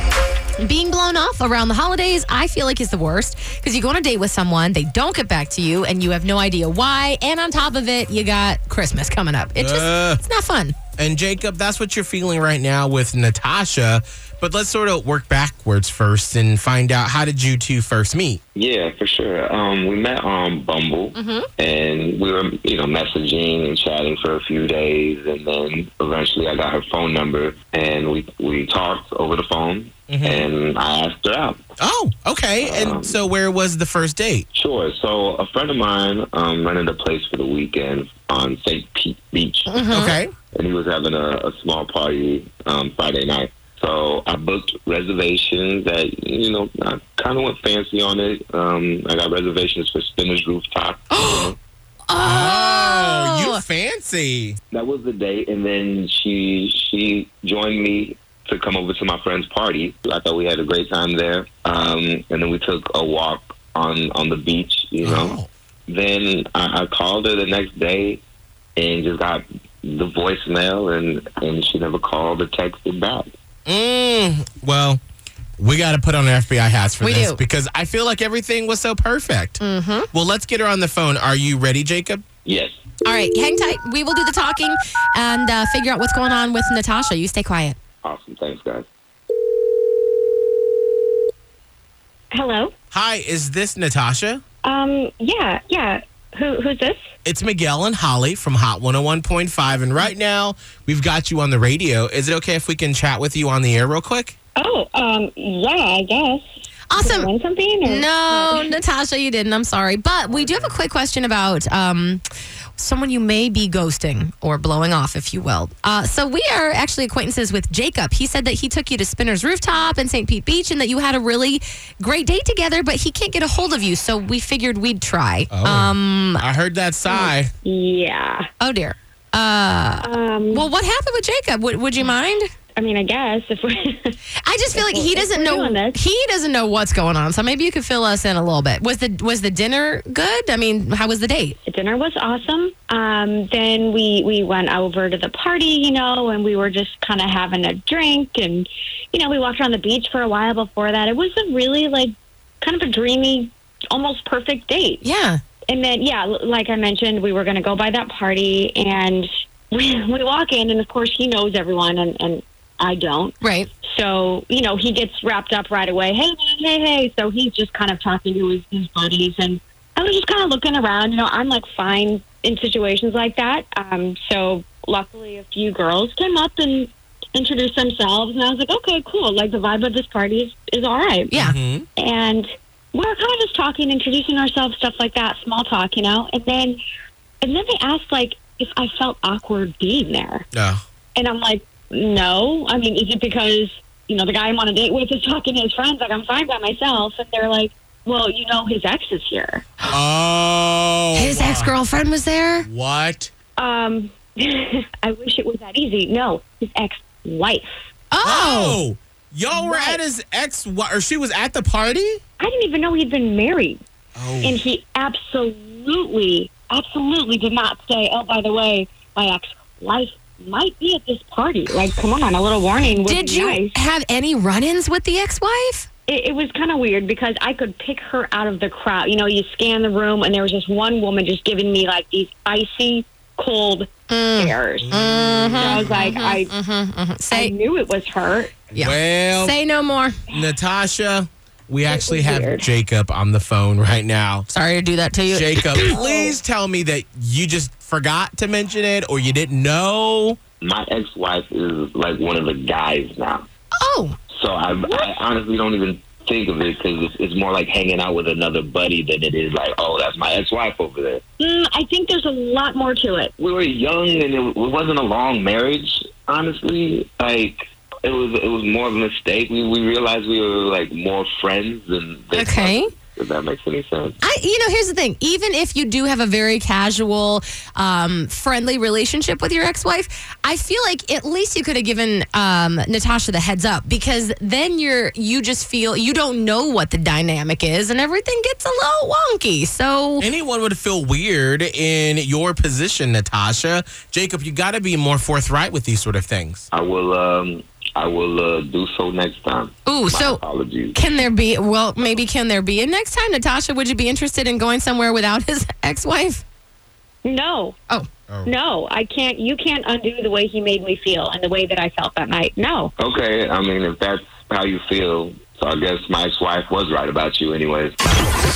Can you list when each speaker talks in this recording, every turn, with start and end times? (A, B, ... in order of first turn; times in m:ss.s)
0:00.6-0:10.8 A
0:09.6-0:10.2 B
0:11.0-0:18.4 B
0:18.6-0:31.6 C
0:21.2-0:21.5 A
0:30.1-0:30.5 B
0:31.8-0:34.5 B
0:32.6-0:33.2 C
0:34.5-0:39.8 C
0:39.7-0:40.2 A
0:39.9-0:40.3 B
0:40.5-0:51.6 C
0:51.1-0:51.6 A
0:52.1-0:53.6 A
0:52.2-0:54.6 B
0:54.7-1:08.2 C
1:05.0-1:05.5 B
1:08.8-1:13.3 C
1:13.7-1:15.0 B
1:15.6-1:19.6 B
1:17.0-1:17.4 A
1:19.6-1:20.1 A
1:20.1-1:22.2 B
1:22.4-1:22.8 C
1:23.0-1:27.8 A
1:28.0-1:28.9 C
1:32.3-1:32.7 D
1:32.9-1:34.4 B
1:34.6-1:37.1 D
1:37.2-1:44.3 B
1:44.6-1:46.4 D
1:46.9-1:47.3 A
1:47.0-1:48.8 D
1:47.8-1:52.2 A
1:50.3-1:50.8 B
1:52.8-2:06.4 A
2:05.5-2:07.5 B
2:07.1-2:08.5 D
2:08.6-2:12.5 A
2:10.0-2:10.7 D
2:12.8-2:14.2 D
2:14.4-2:21.6 A
2:14.7-2:16.0 D
2:21.7-2:35.0 D
2:35.0-2:35.4 A
2:35.7-3:01.3 D
2:43.4-2:43.7 A
3:01.3-3:01.6 A
3:01.4-3:01.9 B
3:02.0-3:06.8 D
3:07.4-3:10.5 D
3:10.5-3:10.8 B
3:11.2-3:19.6 D
3:19.9-3:21.7 B
3:21.2-3:22.7 A
3:22.6-3:23.3 B
3:23.6-3:27.7 D
3:28.1-3:28.8 A
3:28.2-3:32.2 B
3:29.5-3:30.0 A
3:32.4-3:33.8 D
3:34.2-3:34.6 B
3:34.4-3:43.7 D
3:42.9-3:45.9 A
3:46.1-3:54.9 D
3:54.1-3:57.5 A
3:54.8-3:56.0 B
3:55.6-3:56.5 D
3:57.3-3:58.6 D
3:58.7-3:59.6 B
3:58.7-4:00.2 A
4:00.3-4:04.5 B
4:01.9-4:02.7 D
4:04.5-4:06.0 A
4:05.3-4:10.4 B
4:05.8-4:06.4 D
4:10.6-4:13.5 C
4:13.8-4:14.2 A
4:14.3-4:21.2 C
4:21.4-4:23.3 D
4:23.4-4:34.2 C
4:32.3-4:32.9 A
4:34.2-4:50.3 A
4:50.2-4:56.7 B
4:56.7-5:01.0 C
4:59.9-5:00.4 A
5:00.9-5:06.4 A
5:07.2-5:07.8 D
5:08.4-5:12.9 D
5:13.0-5:18.0 C